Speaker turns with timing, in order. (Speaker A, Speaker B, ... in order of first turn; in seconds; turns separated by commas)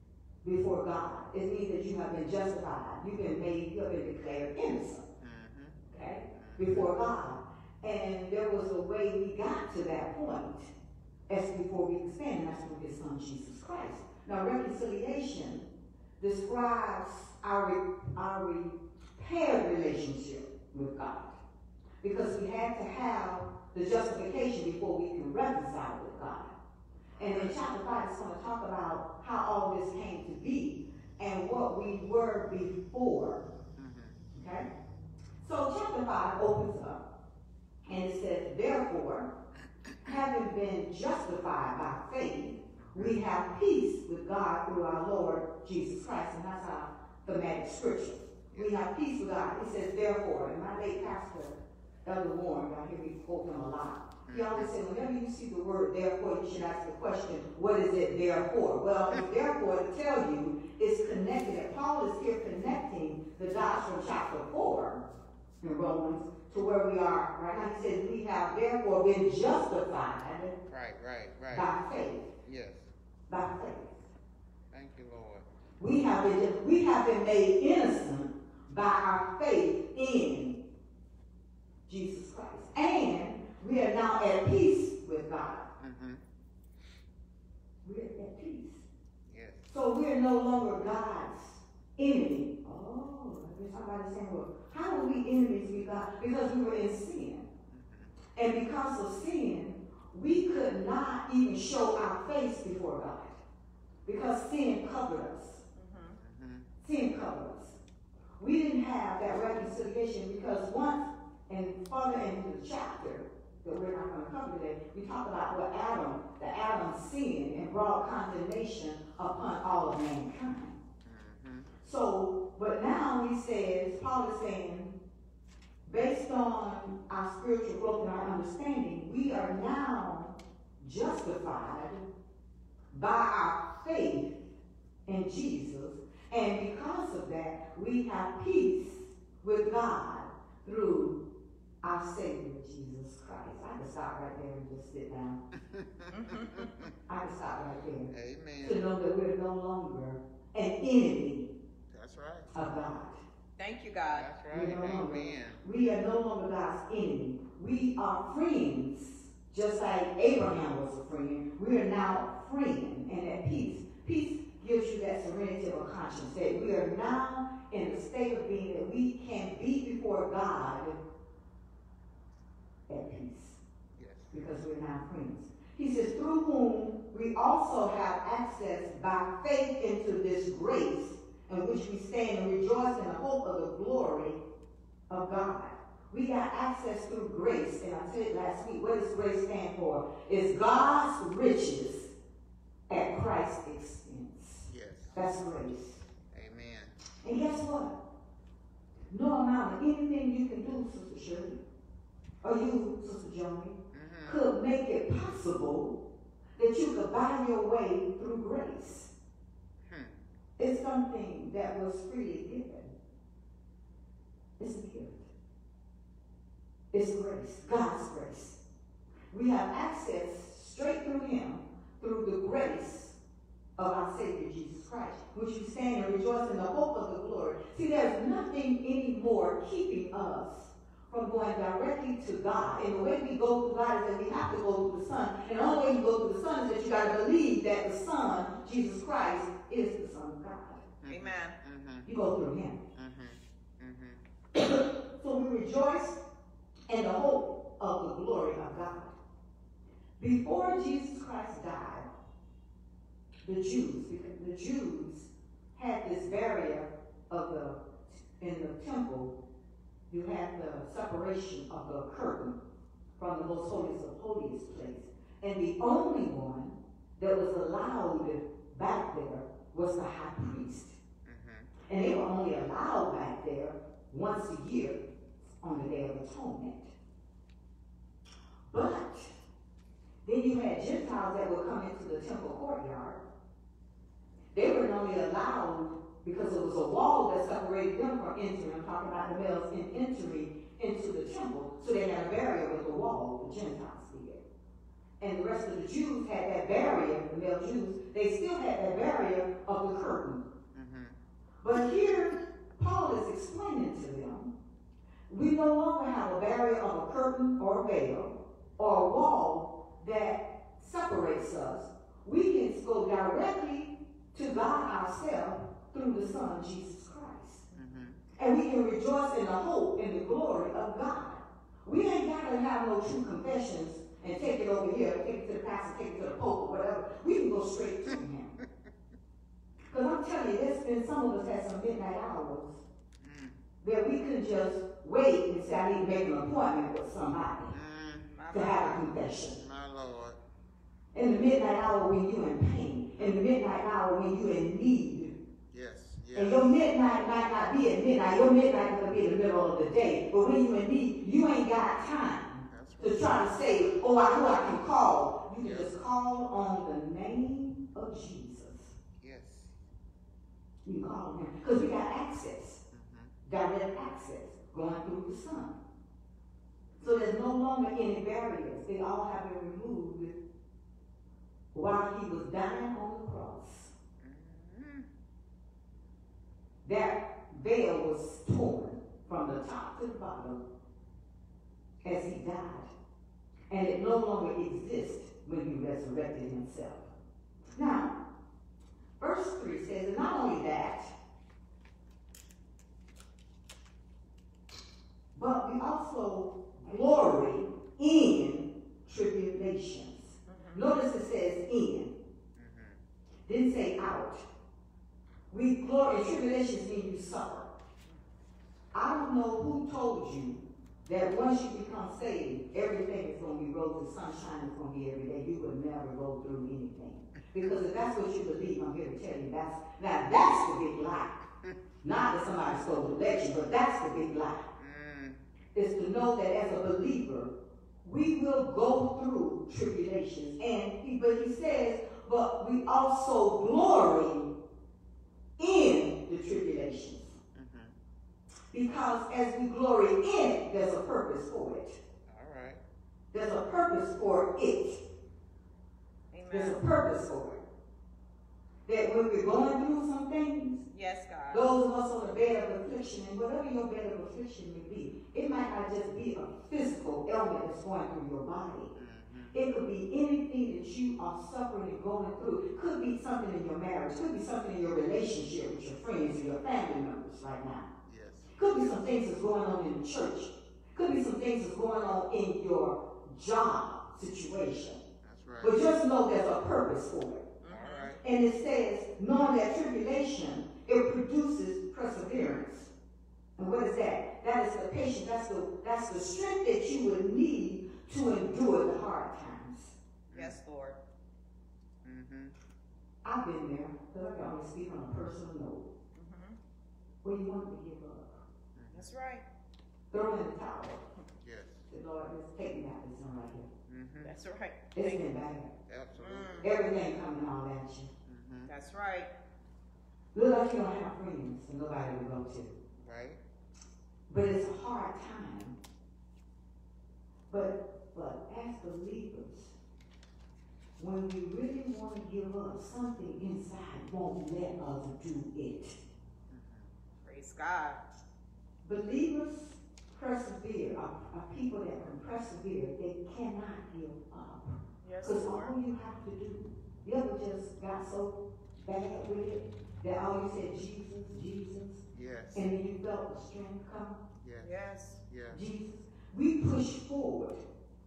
Speaker A: 0.4-5.0, Speaker B: 5.2-6.9, Speaker A: 5.9-10.7, Speaker A: 11.3-15.7, Speaker A: 16.2-21.4, Speaker A: 22.0-26.5, Speaker B: 27.2-27.5, Speaker A: 27.2-33.5, Speaker B: 33.8-34.2, Speaker A: 34.3-34.7, Speaker A: 35.4-37.0, Speaker A: 37.9-39.3, Speaker A: 40.0-65.0, Speaker B: 42.8-43.2, Speaker B: 48.5-48.8, Speaker B: 54.3-54.7, Speaker A: 65.6-70.5, Speaker B: 70.7-71.7, Speaker A: 71.5-72.3, Speaker B: 72.4-72.9, Speaker A: 73.3-74.1, Speaker B: 74.7-75.5, Speaker A: 75.8-80.6, Speaker A: 81.9-85.7, Speaker B: 85.8-86.2, Speaker A: 87.8-88.8, Speaker B: 89.3-89.7, Speaker A: 89.7-97.5, Speaker B: 97.7-98.1, Speaker A: 98.3-103.4, Speaker A: 104.0-105.6, Speaker C: 105.8-106.2, Speaker B: 106.1-106.7, Speaker A: 106.8-107.8, Speaker A: 108.4-120.8, Speaker B: 121.0-121.7, Speaker A: 121.8-125.0, Speaker A: 125.8-132.0, Speaker A: 132.9-134.4, Speaker A: 135.1-141.2, Speaker A: 141.8-145.4, Speaker B: 145.5-146.9, Speaker C: 146.1-146.7, Speaker A: 147.1-148.1, Speaker B: 148.1-148.8, Speaker A: 148.6-151.5, Speaker B: 151.9-152.5, Speaker A: 152.5-153.2, Speaker C: 153.6-154.3, Speaker B: 154.1-155.6, Speaker A: 154.5-171.0, Speaker A: 172.9-173.6, Speaker B: 174.0-174.3, Speaker A: 174.3-184.4, Speaker A: 185.1-192.1, Speaker A: 192.9-196.1, Speaker B: 194.7-195.2, Speaker B: 196.3-197.0, Speaker A: 197.2-197.9, Speaker A: 199.1-201.6, Speaker A: 202.4-205.9, Speaker B: 203.9-204.4, Speaker A: 206.6-209.1, Speaker B: 209.8-210.2, Speaker A: 210.6-212.9, Speaker A: 214.6-215.3, Speaker A: 216.9-218.6, Speaker A: 219.3-223.2, Speaker A: 223.8-240.8, Speaker B: 241.0-242.1, Speaker C: 241.1-241.6, Speaker A: 242.1-242.8, Speaker B: 242.9-244.2, Speaker A: 244.6-246.2, Speaker A: 246.9-249.1, Speaker A: 250.2-252.1, Speaker A: 253.4-259.3, Speaker A: 260.1-262.6, Speaker A: 263.2-271.0, Speaker B: 271.2-271.7, Speaker A: 271.9-275.0, Speaker A: 275.6-276.9, Speaker A: 278.7-279.3, Speaker A: 280.2-283.2, Speaker A: 284.5-294.4, Speaker A: 295.2-300.5, Speaker B: 300.7-301.1, Speaker A: 301.6-304.5, Speaker A: 305.3-317.6, Speaker B: 317.7-318.2, Speaker A: 318.4-328.6, Speaker B: 328.1-328.9, Speaker A: 329.9-332.8, Speaker B: 333.2-333.6, Speaker A: 333.8-337.7, Speaker B: 337.7-338.3, Speaker C: 338.3-339.0, Speaker A: 338.5-339.6, Speaker B: 339.5-340.4, Speaker A: 341.1-345.3, Speaker B: 345.6-346.7, Speaker A: 346.3-358.9, Speaker B: 352.7-353.5, Speaker B: 355.6-355.9, Speaker B: 359.2-359.8, Speaker A: 360.8-362.8, Speaker B: 362.9-363.3, Speaker A: 363.4-365.8, Speaker B: 367.0-367.3, Speaker A: 367.0-370.3, Speaker A: 371.7-373.9, Speaker B: 374.2-375.1, Speaker A: 376.8-380.6, Speaker A: 382.0-382.9, Speaker A: 383.7-387.1, Speaker A: 387.7-388.1, Speaker A: 389.2-391.1, Speaker A: 395.3-402.1, Speaker C: 400.5-400.9, Speaker B: 402.6-403.0, Speaker A: 403.5-404.4, Speaker A: 405.5-407.7, Speaker A: 408.9-421.5, Speaker A: 422.0-424.7, Speaker B: 424.8-425.4, Speaker A: 425.7-427.5, Speaker A: 428.0-434.5, Speaker A: 435.6-437.4, Speaker B: 437.5-437.9, Speaker A: 438.7-442.0, Speaker B: 442.3-442.8, Speaker A: 443.3-445.0, Speaker C: 446.3-446.8, Speaker A: 446.5-447.6, Speaker A: 448.9-450.8, Speaker C: 450.9-451.7, Speaker A: 451.5-458.9, Speaker B: 458.9-459.6, Speaker A: 459.5-467.9, Speaker B: 468.1-469.1, Speaker A: 468.5-475.0, Speaker B: 475.2-475.8, Speaker A: 475.6-477.5, Speaker C: 477.6-478.1, Speaker B: 477.7-478.2, Speaker A: 478.2-482.9, Speaker A: 483.6-489.9, Speaker B: 490.3-490.6, Speaker C: 490.3-491.0, Speaker B: 492.0-492.5, Speaker A: 493.2-495.9, Speaker C: 494.2-494.5, Speaker C: 496.1-496.6, Speaker A: 497.2-498.4, Speaker B: 498.7-499.1, Speaker C: 498.9-499.4, Speaker A: 500.1-501.0, Speaker B: 501.4-501.9, Speaker A: 501.9-503.7, Speaker B: 503.9-504.3, Speaker C: 504.2-505.4, Speaker A: 504.9-505.7, Speaker B: 505.9-506.6, Speaker C: 506.2-506.7, Speaker A: 506.6-508.1, Speaker B: 508.2-508.7, Speaker C: 508.7-509.3, Speaker A: 510.3-512.7, Speaker B: 513.0-513.4, Speaker A: 514.3-515.8, Speaker A: 517.5-519.7, Speaker A: 521.0-526.0, Speaker B: 526.5-526.9, Speaker C: 527.2-528.0, Speaker A: 528.8-542.0, Speaker C: 535.0-535.8, Speaker B: 542.1-542.7, Speaker A: 542.5-544.2, Speaker B: 544.4-544.7, Speaker C: 544.6-545.2, Speaker B: 545.2-545.6, Speaker A: 545.5-547.6